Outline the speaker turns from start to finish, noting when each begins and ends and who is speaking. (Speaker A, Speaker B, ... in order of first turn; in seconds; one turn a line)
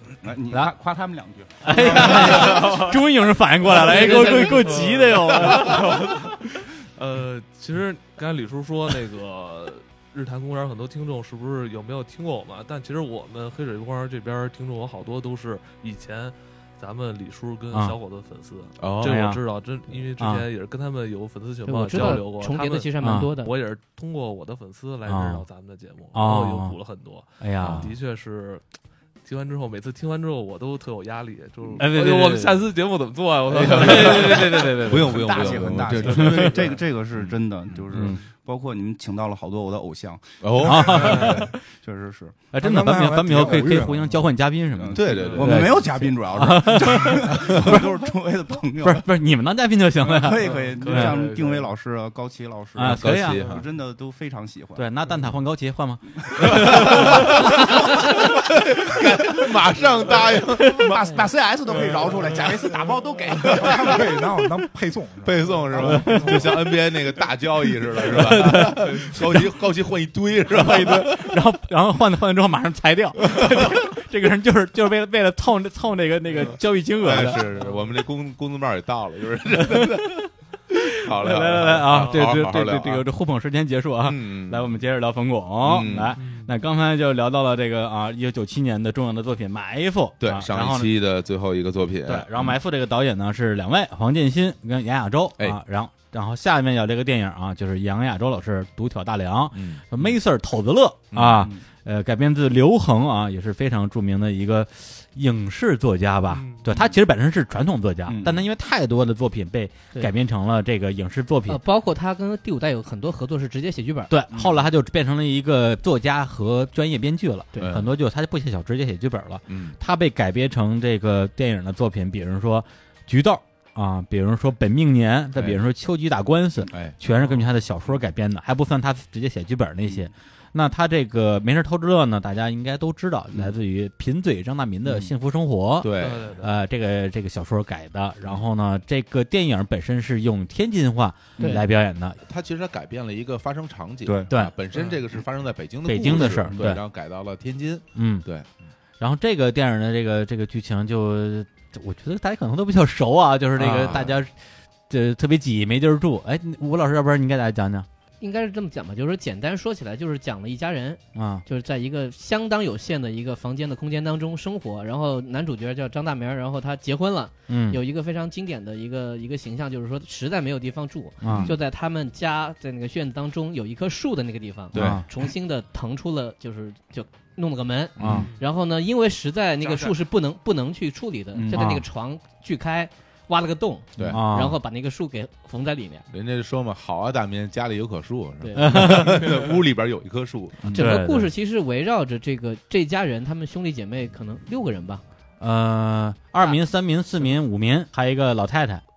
Speaker A: 0.2-2.8
Speaker B: 1.6-6.3
Speaker C: 1.9-2.8
Speaker C: 3.7-28.6
Speaker D: 18.8-19.2
Speaker B: 19.0-19.4
Speaker B: 20.2-20.5
Speaker E: 21.7-23.5
Speaker B: 23.0-23.3
Speaker B: 25.1-25.5
Speaker B: 26.1-26.8
Speaker B: 27.4-27.9
Speaker D: 27.6-27.9
Speaker C: 29.2-35.7
Speaker B: 31.8-32.6
Speaker D: 33.5-38.2
Speaker A: 33.8-42.5
Speaker D: 40.4-41.5
Speaker B: 40.6-41.6
Speaker C: 41.0-41.4
Speaker B: 42.5-47.9
Speaker F: 42.6-44.3
Speaker A: 44.7-49.1
Speaker D: 44.9-45.8
Speaker C: 45.1-45.6
Speaker D: 47.3-47.8
Speaker B: 48.8-51.2
Speaker A: 50.0-54.9
Speaker C: 50.4-51.7
Speaker B: 52.8-53.6
Speaker D: 52.8-53.6
Speaker B: 54.8-58.3
Speaker A: 56.4-57.4
Speaker D: 56.4-61.2
Speaker B: 60.6-60.9
Speaker A: 60.7-64.2
Speaker D: 62.0-62.5
Speaker C: 62.2-63.1
Speaker F: 63.5-66.7
Speaker D: 65.2-71.4
Speaker B: 66.0-66.7
Speaker B: 68.1-69.5
Speaker C: 68.8-69.2
Speaker B: 70.5-77.5
Speaker D: 73.2-73.9
Speaker C: 76.3-76.6
Speaker D: 76.5-80.1
Speaker C: 77.3-77.8
Speaker B: 79.6-90.9
Speaker D: 81.0-83.1
Speaker C: 81.9-82.3
Speaker D: 84.0-84.8
Speaker D: 85.6-86.2
Speaker C: 86.2-86.5
Speaker D: 90.2-92.6
Speaker B: 92.0-111.6
Speaker D: 99.5-100.2
Speaker D: 101.1-101.5
Speaker C: 106.3-106.7
Speaker A: 108.1-108.5
Speaker E: 111.5-114.1
Speaker B: 114.1-142.2
Speaker A: 114.3-114.7
Speaker D: 117.6-117.9
Speaker D: 119.5-119.8
Speaker D: 125.3-125.6
Speaker D: 126.7-127.0
Speaker C: 127.0-127.5
Speaker A: 134.8-135.1
Speaker D: 135.8-136.3
Speaker C: 136.0-136.5
Speaker A: 141.4-141.6
Speaker D: 142.2-148.5
Speaker A: 144.1-144.3
Speaker C: 144.7-145.0
Speaker B: 145.8-146.8
Speaker B: 147.9-148.3
Speaker B: 149.0-154.3
Speaker D: 153.6-154.2
Speaker B: 154.9-157.9
Speaker E: 158.2-186.1
Speaker B: 161.2-161.4
Speaker B: 167.5-167.8
Speaker B: 171.2-171.5
Speaker D: 171.2-171.5
Speaker D: 174.7-175.0
Speaker B: 174.7-175.1
Speaker D: 178.0-178.3
Speaker B: 178.0-178.3
Speaker C: 178.2-178.4
Speaker C: 179.6-180.0
Speaker A: 181.4-181.6
Speaker B: 181.5-181.8
Speaker D: 184.0-184.2
Speaker B: 184.1-184.6
Speaker D: 186.1-190.8
Speaker E: 188.4-189.1
Speaker B: 188.6-189.4
Speaker C: 189.2-189.5
Speaker B: 190.7-191.3
Speaker E: 190.7-195.0
Speaker B: 195.4-198.8